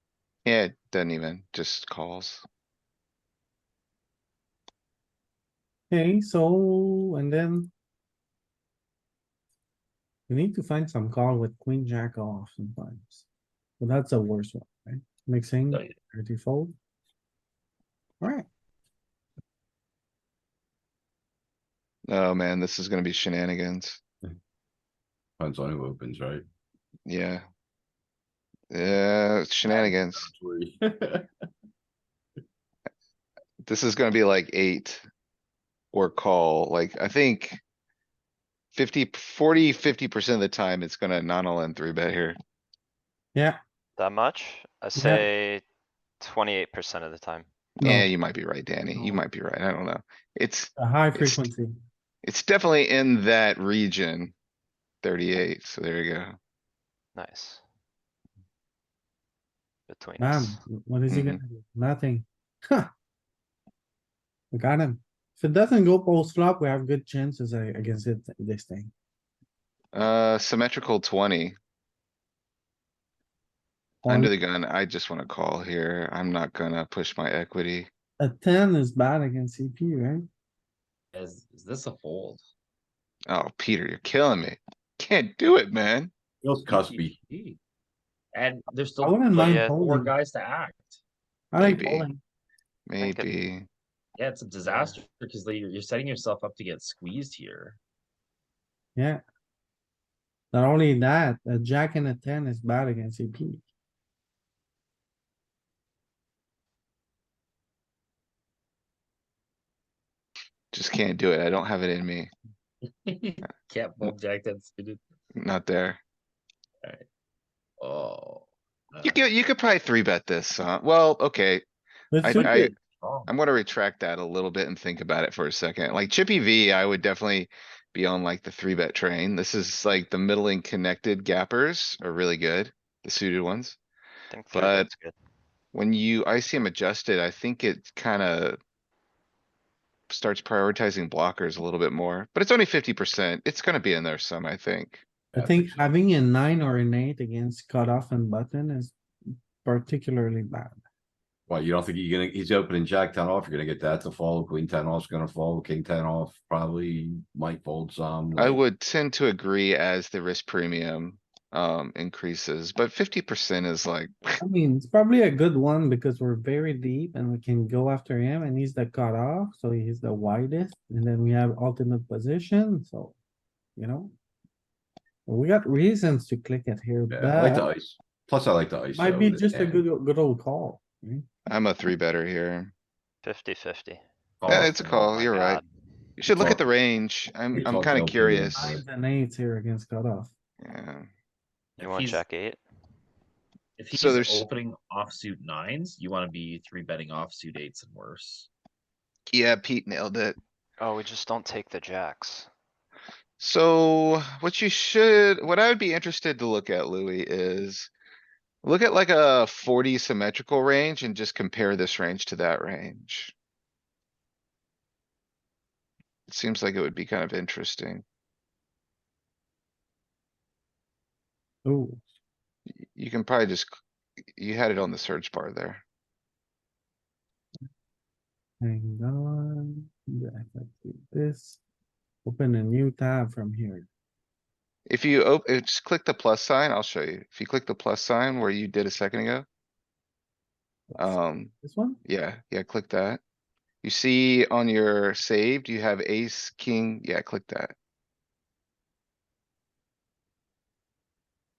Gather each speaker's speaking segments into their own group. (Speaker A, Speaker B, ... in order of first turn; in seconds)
Speaker A: 0.5-2.5, 22.1-24.0, 27.1-27.4, 28.7-30.3, 33.6-35.0, 35.9-37.6, 38.7-42.4, 47.8-51.5, 52.2-54.3, 55.0-56.4, 61.1-61.4, 69.9-71.5, 74.1-77.9, 83.3-86.1, 91.6-92.1, 92.9-93.7, 110.7-112.3, 115.3-116.0, 119.0-121.6, 122.2-122.7, 123.3-133.8, 134.5-134.9, 135.7-138.6, 140.1-145.0, 158.4-164.4, 181.5-182.7, 184.5-185.6, 186.2-188.8, 190.6-191.1, 193.9-194.4, 199.3-200.4, 203.4-207.9, 208.6-213.3, 216.3-218.0, 222.9-223.8, 224.3-225.8, 234.9-239.5, 241.0-241.5, 242.1-243.2, 243.8-247.8
Speaker B: 5.9-7.7, 10.3-13.3, 13.8-16.7, 18.2-18.5, 45.0-45.3, 47.8-48.1, 49.0-49.2, 50.8-51.7, 60.2-62.9, 64.5-68.9, 74.0-74.3, 78.2-80.2, 89.0-90.1, 91.5-92.2, 99.0-99.2, 100.5-103.6, 122.1-122.7, 145.4-148.9, 149.6-150.8, 164.4-173.2, 173.8-174.2, 175.3-177.7, 178.9-181.2, 188.6-190.3, 221.7-222.0, 228.6-231.6, 232.2-233.9, 240.9-242.0
Speaker C: 25.4-26.4, 29.6-31.3, 86.4-87.2, 145.3-145.8, 151.5-158.6, 177.1-179.8, 187.5-188.8
Speaker D: 44.0-45.6, 46.2-47.5, 57.1-57.6, 59.9-60.6, 89.4-89.7, 93.0-93.3, 94.7-95.0, 134.3-135.2, 183.2-184.0, 185.0-185.7, 191.8-192.6, 200.8-202.5
Speaker E: 81.1-82.5, 86.6-87.6, 88.3-91.0, 94.2-97.8, 113.1-115.0, 117.8-119.2, 122.3-123.3, 184.4-185.2, 191.8-192.2, 193.8-198.5